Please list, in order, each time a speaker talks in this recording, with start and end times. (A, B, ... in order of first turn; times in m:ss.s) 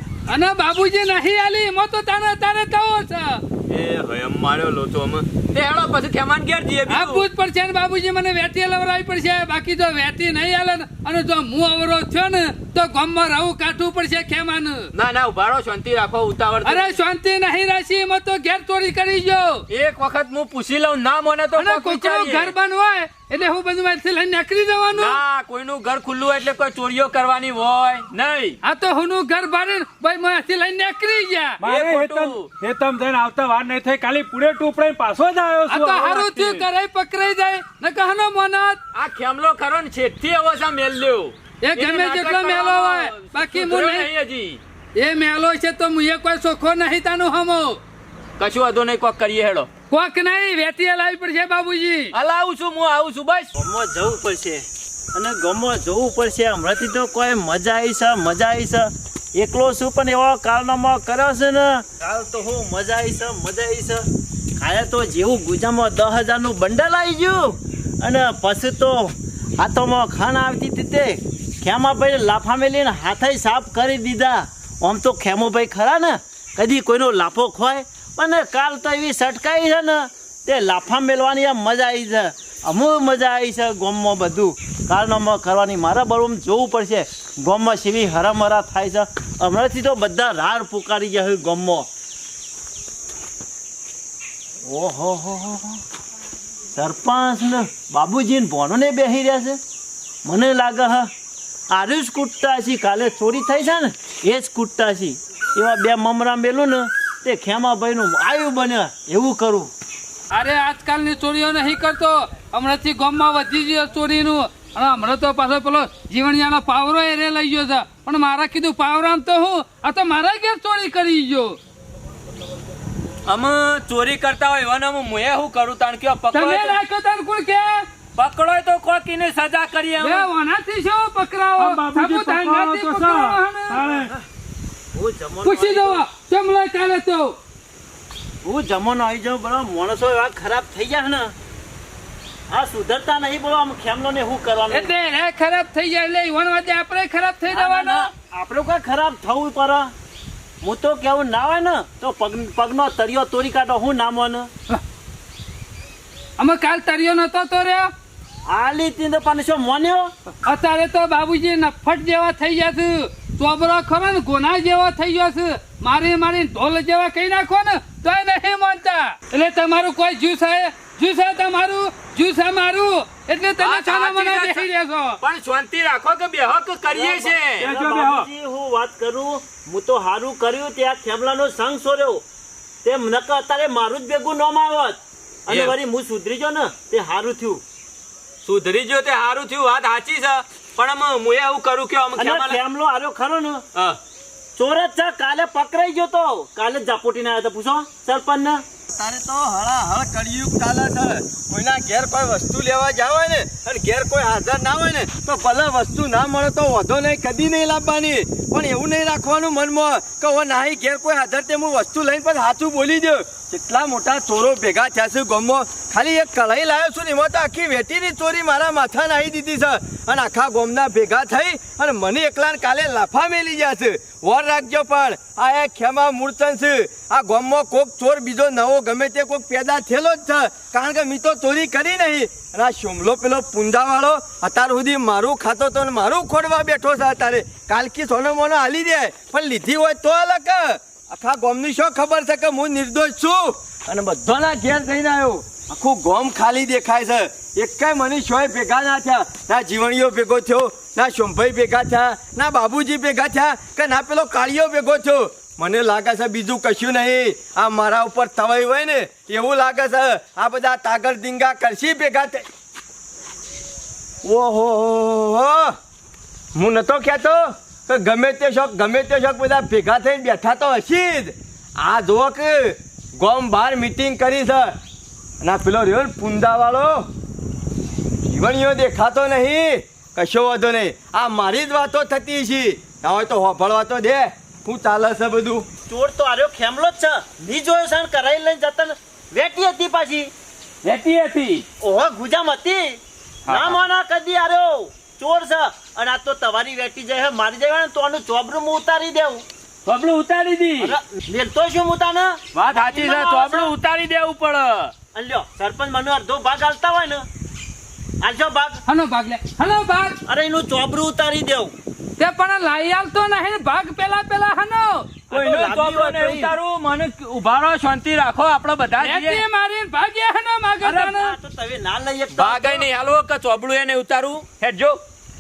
0:00.3-0:03.4 A
0:03.7-0:07.2 B
0:06.9-0:14.9 A
0:14.9-0:17.0 B
0:16.6-0:19.6 A
0:19.7-0:22.5 B
0:21.6-0:25.2 A
0:24.9-0:28.6 B
0:28.6-0:31.6 A
0:31.6-0:36.6 C
0:31.6-0:32.5 B
0:35.7-0:38.8 A
0:38.9-0:44.6 B
0:41.6-0:44.1 A
0:45.0-0:47.8 A
0:48.4-0:49.7 B
0:49.9-0:52.1 A
0:52.1-0:53.5 B
0:53.5-1:04.0 D
1:04.6-1:31.9 D
1:34.6-1:35.8 D
1:36.7-1:39.6 D
1:40.2-1:41.1 D
1:41.7-1:49.7 D
1:50.3-2:01.6 A
2:03.3-2:06.8 B
2:06.3-2:07.8 A
2:08.2-2:10.3 B
2:10.0-2:13.8 A
2:11.6-2:14.1 C
2:14.9-2:16.1 D
2:15.4-2:17.4 A
2:18.4-2:21.3 D
2:22.5-2:24.9 D
2:24.7-2:28.1 A
2:27.5-2:29.9 D
2:30.6-2:34.5 D
2:36.4-2:37.9 A
2:38.5-2:40.1 D
2:40.4-2:55.2 A
2:53.6-2:54.7 B
2:55.2-2:57.7 B
2:56.9-3:02.2 D
2:57.6-2:58.3 C
3:02.8-3:07.6 D
3:05.5-3:05.8 B
3:08.4-3:12.6 B
3:12.2-3:13.6 D
3:14.6-3:18.6 D
3:18.9-4:22.4 E
4:24.2-4:25.8 E
4:26.5-4:34.8 E
4:35.4-4:37.1 E
4:38.2-4:45.6 E
4:45.9-4:50.3 D
4:50.8-4:51.6 B
4:51.8-4:59.4 D
4:53.4-4:53.8 B
4:59.8-5:00.9 B
5:00.8-5:03.7 D
5:02.5-5:04.9 B
5:05.1-5:07.2 D
5:08.2-5:08.8 D
5:08.9-5:10.2 A
5:10.3-5:11.7 D
5:12.2-5:15.1 A
5:15.3-5:16.6 D
5:15.3-5:19.4 B
5:19.0-5:21.4 A
5:20.8-5:22.9 D
5:22.4-5:25.0 B